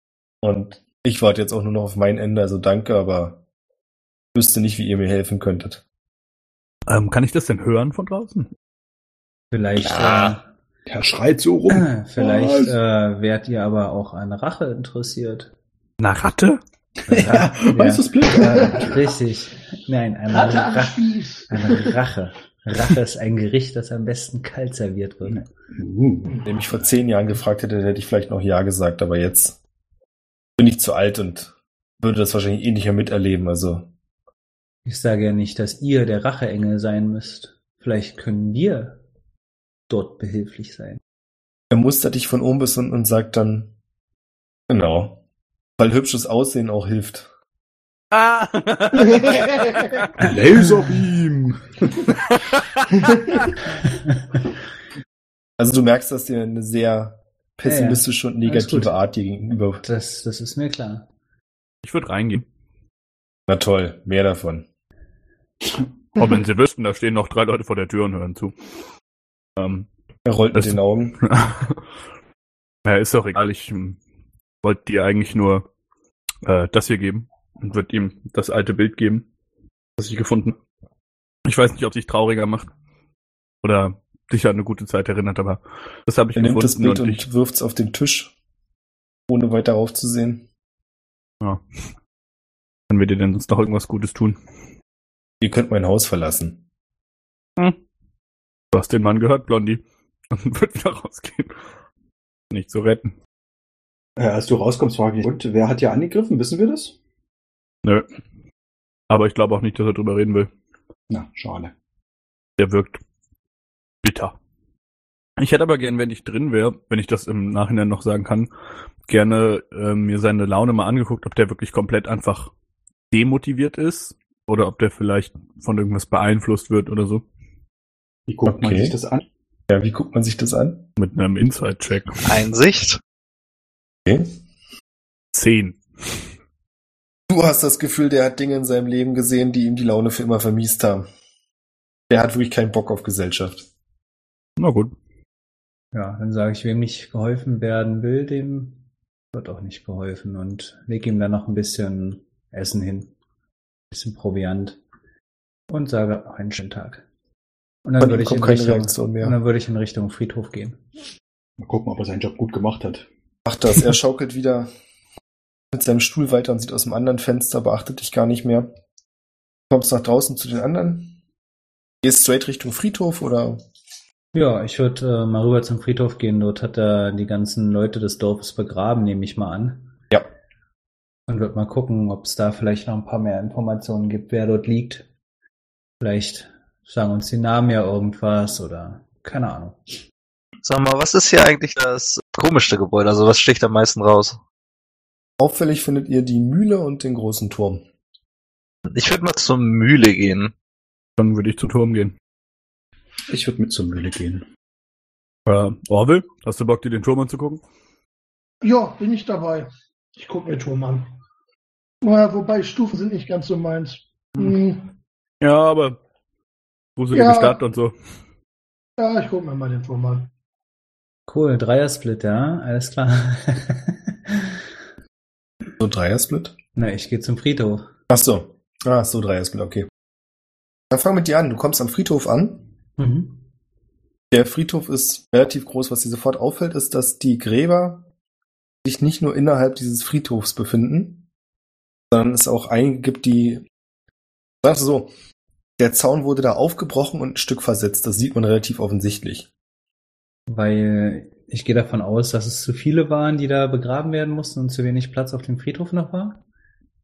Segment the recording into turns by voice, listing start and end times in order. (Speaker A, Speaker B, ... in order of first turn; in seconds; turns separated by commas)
Speaker A: 0.4-3.4, Speaker A: 4.3-5.8, Speaker B: 6.9-8.5, Speaker C: 9.5-10.5, Speaker A: 9.8-10.3, Speaker D: 10.9-12.8, Speaker C: 11.7-15.5, Speaker B: 16.0-16.6, Speaker C: 17.1-25.4, Speaker D: 17.1-19.1, Speaker E: 20.3-21.9, Speaker D: 25.3-26.4, Speaker A: 26.4-29.6, Speaker A: 30.6-33.9, Speaker C: 34.9-39.0, Speaker C: 39.9-41.0, Speaker A: 41.7-43.7, Speaker A: 44.7-45.2, Speaker A: 45.8-47.3, Speaker B: 48.1-50.1, Speaker E: 49.2-49.9, Speaker D: 50.2-52.0, Speaker B: 52.3-52.8, Speaker E: 53.0-53.5, Speaker A: 55.6-59.8, Speaker C: 57.6-59.0, Speaker C: 59.8-61.1, Speaker B: 61.8-62.5, Speaker A: 63.5-64.7, Speaker B: 66.2-68.5, Speaker B: 69.6-69.9, Speaker A: 70.3-71.2, Speaker B: 70.5-71.8, Speaker B: 72.8-74.0, Speaker B: 74.6-75.7, Speaker B: 76.4-79.3, Speaker B: 80.0-80.6, Speaker B: 81.5-82.7, Speaker B: 83.6-87.2, Speaker A: 86.4-88.3, Speaker A: 89.3-90.5, Speaker B: 92.9-94.4, Speaker A: 95.4-96.6, Speaker B: 98.7-101.5, Speaker B: 102.5-103.1, Speaker D: 104.2-107.0, Speaker B: 109.1-110.5, Speaker D: 111.1-111.7, Speaker B: 112.6-113.0, Speaker B: 114.0-114.4, Speaker B: 115.4-118.5, Speaker B: 119.1-122.5, Speaker B: 123.1-127.2, Speaker D: 128.3-129.2, Speaker A: 128.5-128.9, Speaker A: 129.7-130.9, Speaker B: 131.0-132.4, Speaker F: 132.2-133.0, Speaker B: 135.3-136.2, Speaker A: 137.3-141.1, Speaker A: 142.1-143.6, Speaker B: 144.6-144.9, Speaker C: 145.9-148.8, Speaker C: 149.3-153.1, Speaker C: 153.9-154.8, Speaker C: 155.7-157.0, Speaker C: 157.8-160.8, Speaker A: 158.0-159.4, Speaker D: 161.6-163.1, Speaker A: 163.5-164.7, Speaker A: 165.7-168.7, Speaker A: 169.7-171.2, Speaker A: 172.0-173.6, Speaker C: 174.3-179.9, Speaker C: 181.3-185.1, Speaker C: 186.0-190.0, Speaker F: 190.6-194.4, Speaker A: 195.4-197.8, Speaker F: 198.9-200.5, Speaker B: 201.2-202.2, Speaker D: 203.3-204.4, Speaker B: 205.5-207.6, Speaker E: 208.6-211.1, Speaker E: 212.0-215.0, Speaker B: 215.4-216.0, Speaker B: 217.0-217.9, Speaker E: 217.1-217.6, Speaker E: 219.0-220.3, Speaker C: 221.3-224.6, Speaker A: 225.8-226.6, Speaker C: 226.8-227.9, Speaker A: 228.1-229.9, Speaker A: 230.9-232.6, Speaker C: 233.0-233.4, Speaker A: 234.3-238.1, Speaker A: 238.8-241.2, Speaker A: 242.1-243.6, Speaker A: 244.6-245.1, Speaker A: 245.8-249.5, Speaker C: 250.5-256.4